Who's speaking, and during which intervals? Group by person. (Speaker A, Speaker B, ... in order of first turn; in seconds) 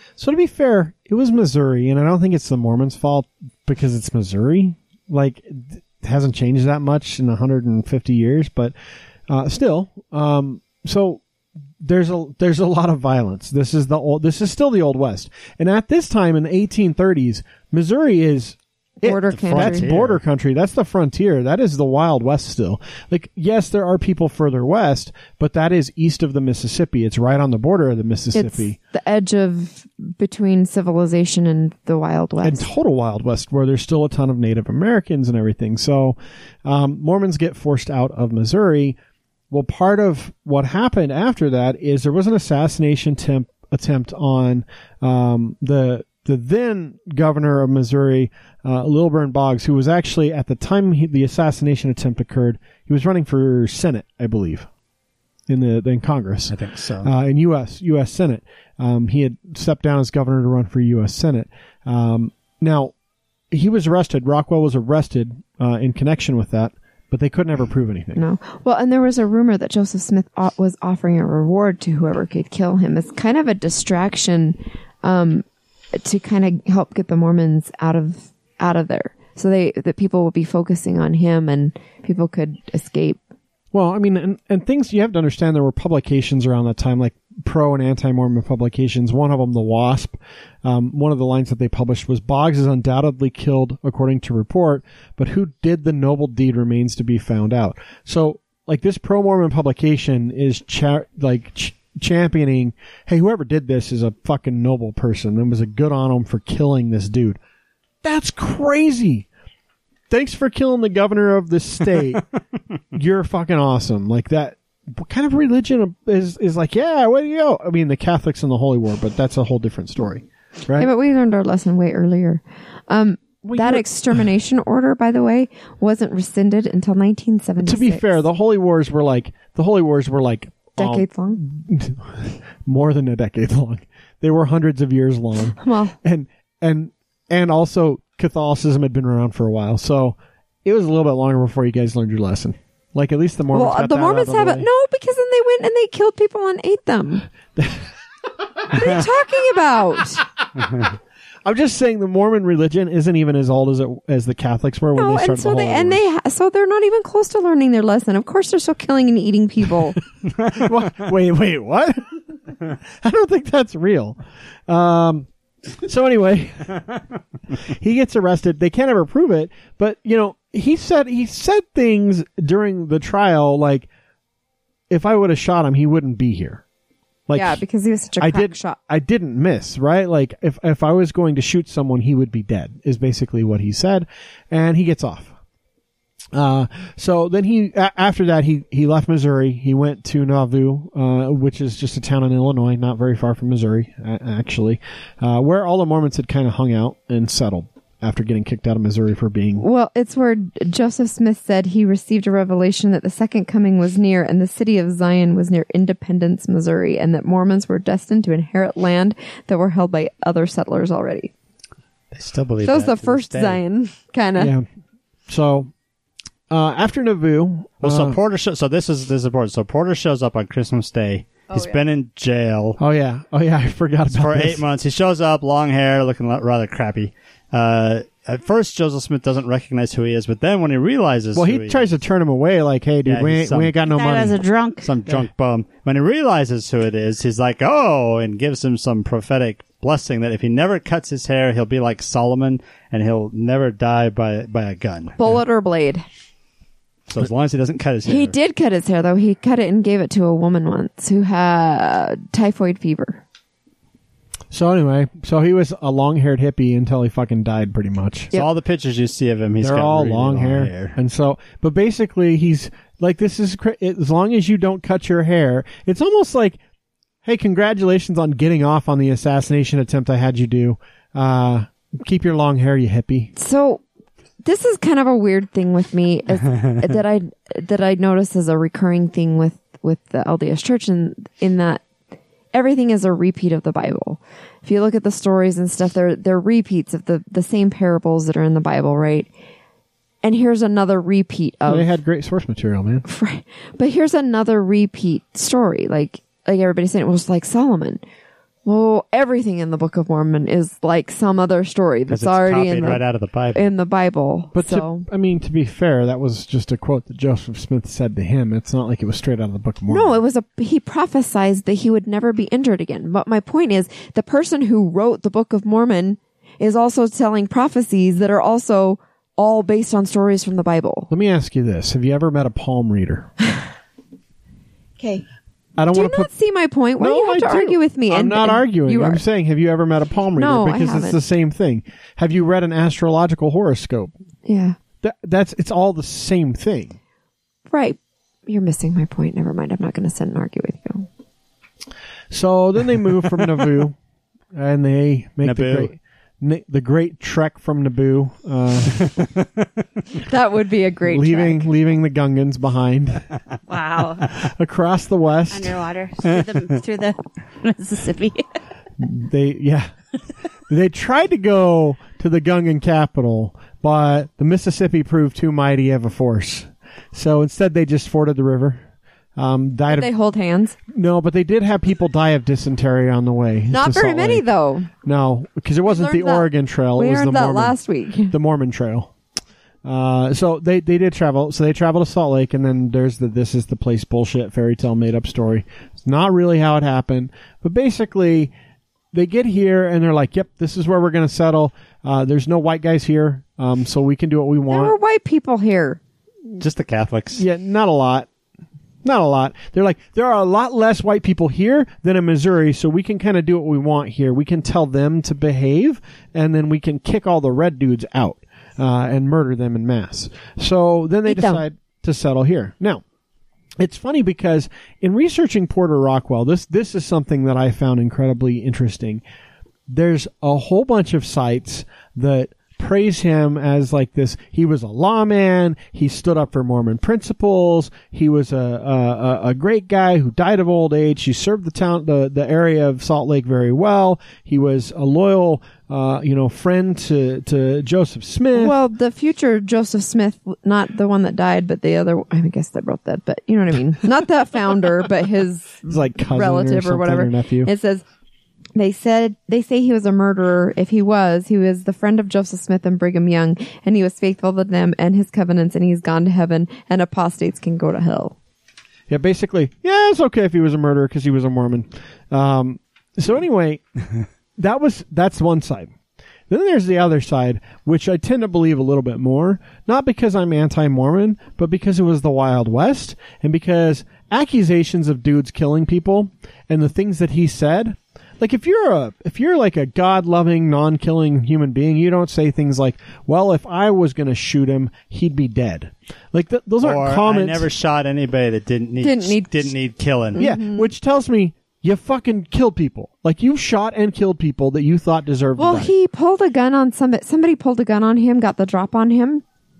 Speaker A: 0.2-8.7, 9.3-11.2, 11.8-28.8, 32.4-39.0, 39.5-54.7, 55.5-62.9, 63.5-68.2, 83.7-107.4, 108.0-109.3, 110.1-112.2, 112.9-120.9, 123.4-123.8, 127.6-144.7, 147.6-147.8, 148.6-149.0, 151.4-156.0, 160.4-162.1, 162.9-165.3, 165.8-166.8, 167.5-173.9, 174.9-176.6, 177.3-177.6, 178.2-185.3, 186.3-199.7, 214.3-214.7, 215.3-215.7, 216.5-218.2, 222.8-224.6, 231.3-234.4, 254.5-258.3, 259.6-266.6, 267.2-273.3, 291.6-293.1, 304.5-310.2, 321.1-323.3, 325.8-326.3, 327.0-334.1, 335.0-336.9, 342.3-343.9, 344.5-349.0, 351.1-353.3, 354.3-355.8, 359.0-359.9, 360.7-368.8, 369.4-370.1, 370.9-374.4, 375.0-377.8, 378.3-379.1, 379.8-388.5, 389.1-394.9, 397.3-398.3, 399.0-413.0, 413.8-419.2, 419.9-438.7, 445.9-447.7, 459.1-463.8, 464.6-465.9, 466.5-487.7, 490.4-495.9
Speaker B: 19.0-19.9, 28.3-32.7, 68.2-83.2, 120.8-128.2, 130.8-131.4, 135.6-135.9, 143.5-147.3, 148.7-150.2, 154.9-160.0, 177.3-178.8, 199.6-211.3, 212.6-214.5, 221.5-221.8, 245.2-246.0, 248.1-253.2, 273.4-273.8, 274.4-281.8, 282.5-289.3, 290.2-291.9, 293.1-298.0, 298.6-305.1, 309.9-321.1, 325.0-325.2, 325.9-329.2, 330.4-331.2, 334.4-334.8, 337.7-341.1, 350.1-351.7, 369.9-370.8, 373.7-374.9, 375.9-378.4, 394.7-396.0, 411.2-411.6, 438.5-448.0, 448.8-458.4, 489.0-489.7, 490.3-490.9, 495.6-499.4
Speaker C: 19.3-20.2, 56.5-57.1, 212.1-213.6, 217.8-222.8, 224.1-231.9, 233.1-233.7, 234.8-245.4, 247.1-248.3, 258.3-261.0, 302.1-303.7, 345.4-345.9, 349.0-349.6, 396.6-397.4, 486.8-490.4
Speaker D: 233.8-234.9, 353.7-354.3, 355.5-358.4